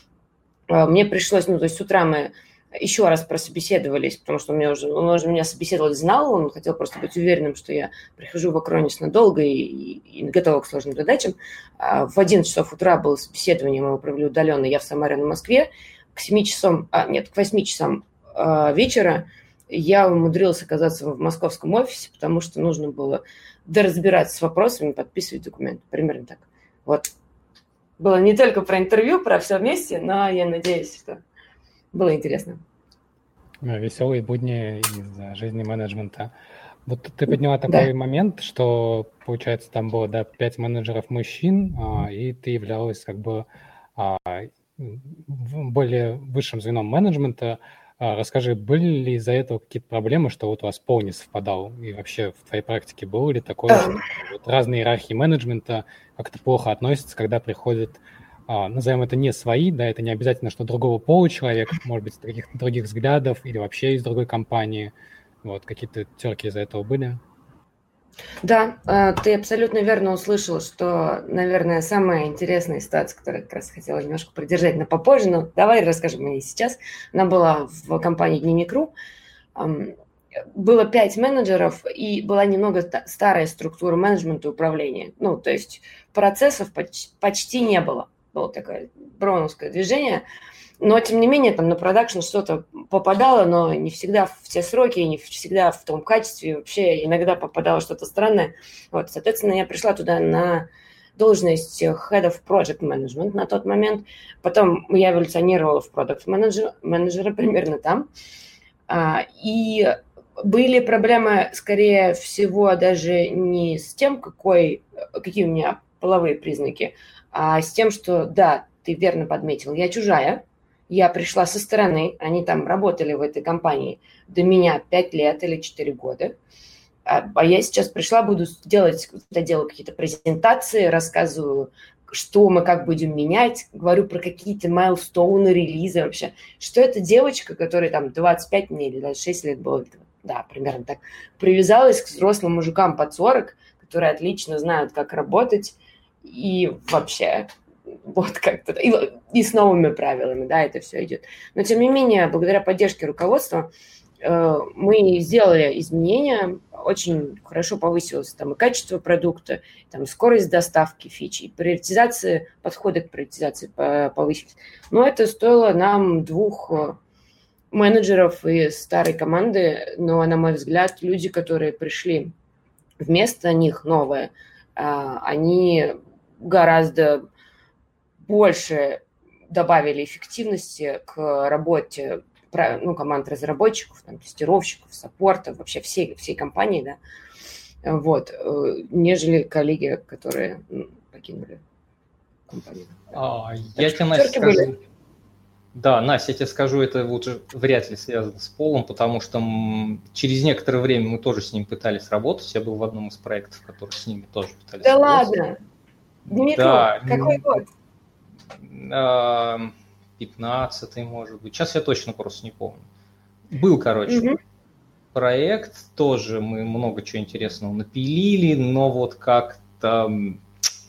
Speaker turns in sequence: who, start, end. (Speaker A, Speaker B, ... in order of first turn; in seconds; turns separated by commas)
Speaker A: 0.7-27.1, Speaker A: 28.0-31.2, Speaker A: 31.9-32.6, Speaker B: 33.6-36.3, Speaker B: 36.9-43.5, Speaker B: 44.0-64.9, Speaker A: 53.7-54.0, Speaker B: 65.4-67.2, Speaker A: 68.4-78.9, Speaker A: 79.5-79.9, Speaker A: 80.5-90.2, Speaker A: 90.8-108.1, Speaker A: 108.9-126.4, Speaker A: 127.1-147.5, Speaker A: 148.1-153.7, Speaker A: 154.2-167.0, Speaker A: 167.7-172.3, Speaker A: 173.0-177.3, Speaker A: 178.2-187.0, Speaker A: 187.8-191.6, Speaker A: 192.5-193.1, Speaker C: 193.1-194.8, Speaker A: 193.8-194.7, Speaker C: 195.7-205.3, Speaker A: 204.8-205.6, Speaker A: 206.3-207.6, Speaker C: 206.6-207.6, Speaker C: 208.6-212.8, Speaker C: 213.5-214.3, Speaker A: 214.1-214.4, Speaker C: 215.1-220.4